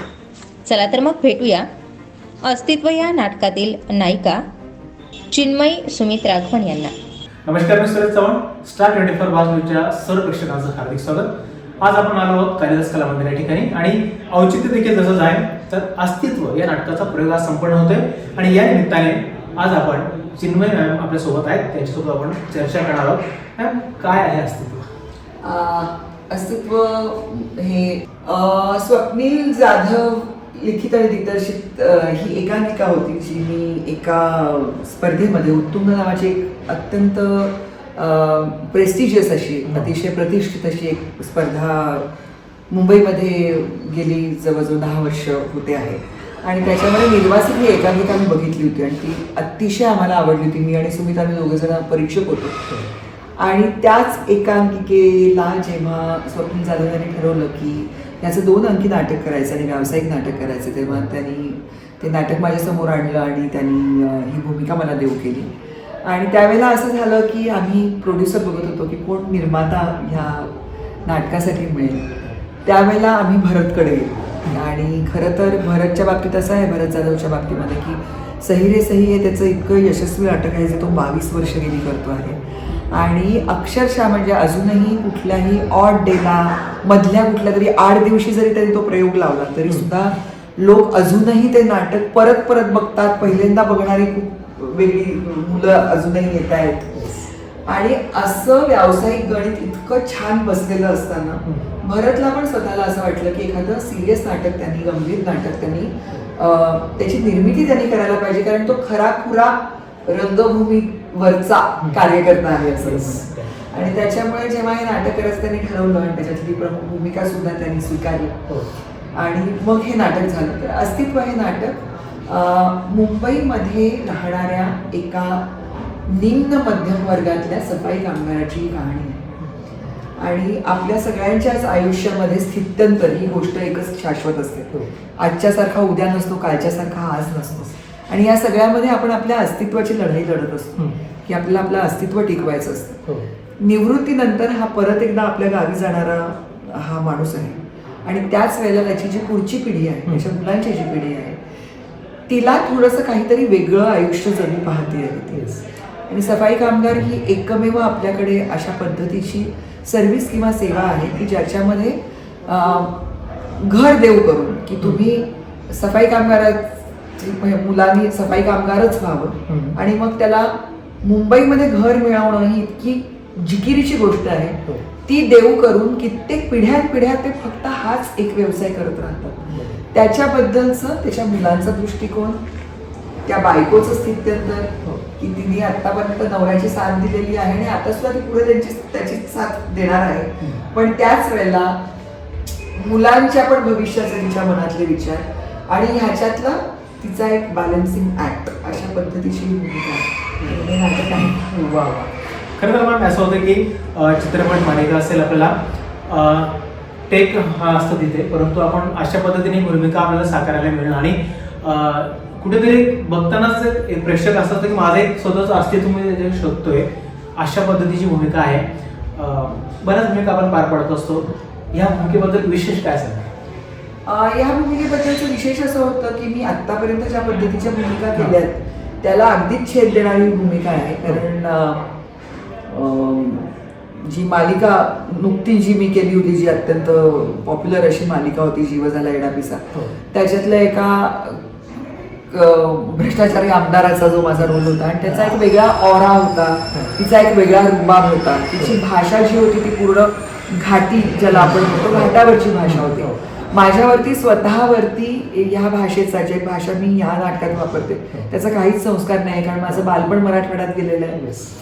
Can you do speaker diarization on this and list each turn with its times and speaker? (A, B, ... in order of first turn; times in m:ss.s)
0:00.6-0:01.7 A
0:02.4-0:04.4 A
0:05.3-0:06.9 A
0:07.4-0:11.3 B
0:11.8-0:24.9 B
0:25.4-0:42.1 C
0:39.7-0:39.9 B
0:42.7-0:52.8 C
0:53.4-1:05.5 C
1:06.0-1:10.5 C
1:11.0-1:37.0 C
1:37.0-1:37.2 B
1:37.7-1:58.5 C
1:52.8-1:53.6 B
1:59.1-2:05.4 C
2:06.1-2:09.3 C
2:10.2-2:23.0 C
2:23.6-2:31.4 C
2:32.3-2:43.0 C
2:35.3-2:35.6 B
2:43.5-3:02.4 C
2:49.5-2:49.8 B
3:03.2-3:11.8 C
3:12.7-3:21.4 C
3:20.4-3:25.5 B
3:26.1-3:26.5 B
3:27.1-3:43.3 B
3:44.0-3:51.8 C
3:52.7-4:01.4 C
4:02.3-4:21.2 C
4:11.3-4:12.1 B
4:12.7-4:13.1 B
4:21.1-4:21.5 B